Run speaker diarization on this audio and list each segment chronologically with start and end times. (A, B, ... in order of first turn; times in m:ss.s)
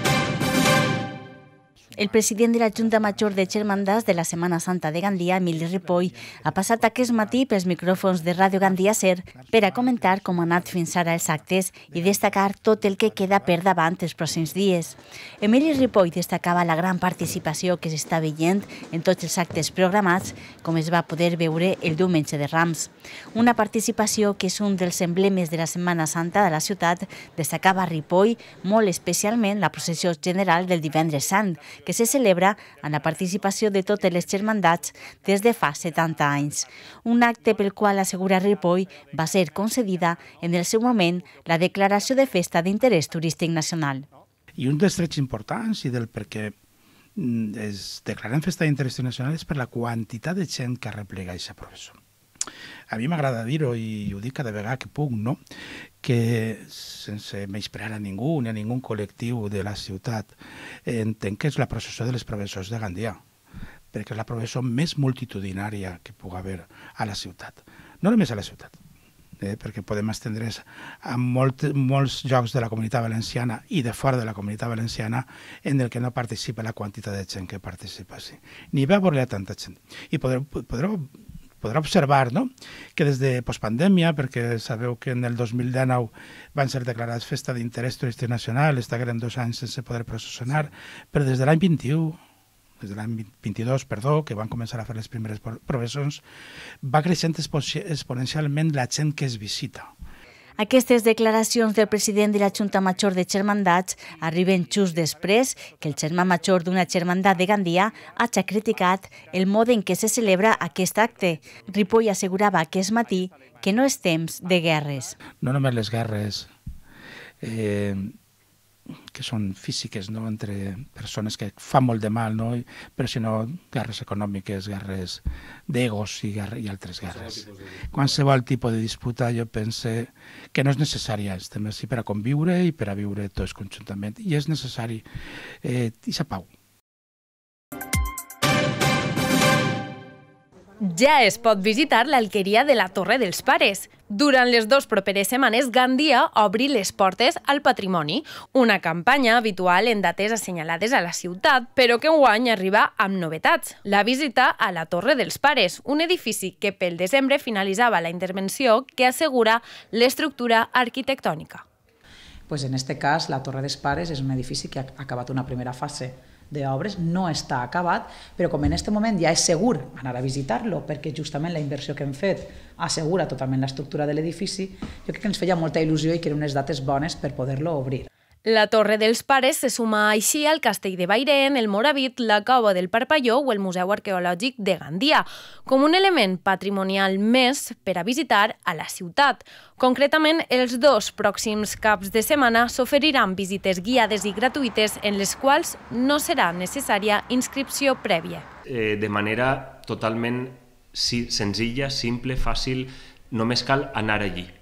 0:02.0-0:44.0 A
0:12.5-0:12.7 B
0:44.6-0:46.5 B
0:47.2-0:52.0 B
0:52.9-0:55.4 B
0:56.0-1:00.3 B
1:00.8-1:03.2 B
1:03.9-1:08.7 B
1:09.4-1:32.2 B
1:32.8-1:36.2 B
1:36.8-1:39.9 B
1:40.6-1:55.2 A
1:55.4-1:56.5 B
1:57.4-1:58.1 B
1:59.1-2:15.0 B
2:15.6-2:16.5 B
2:20.8-2:41.6 C
2:42.5-2:58.1 D
2:58.4-3:18.4 C
3:18.8-3:24.5 E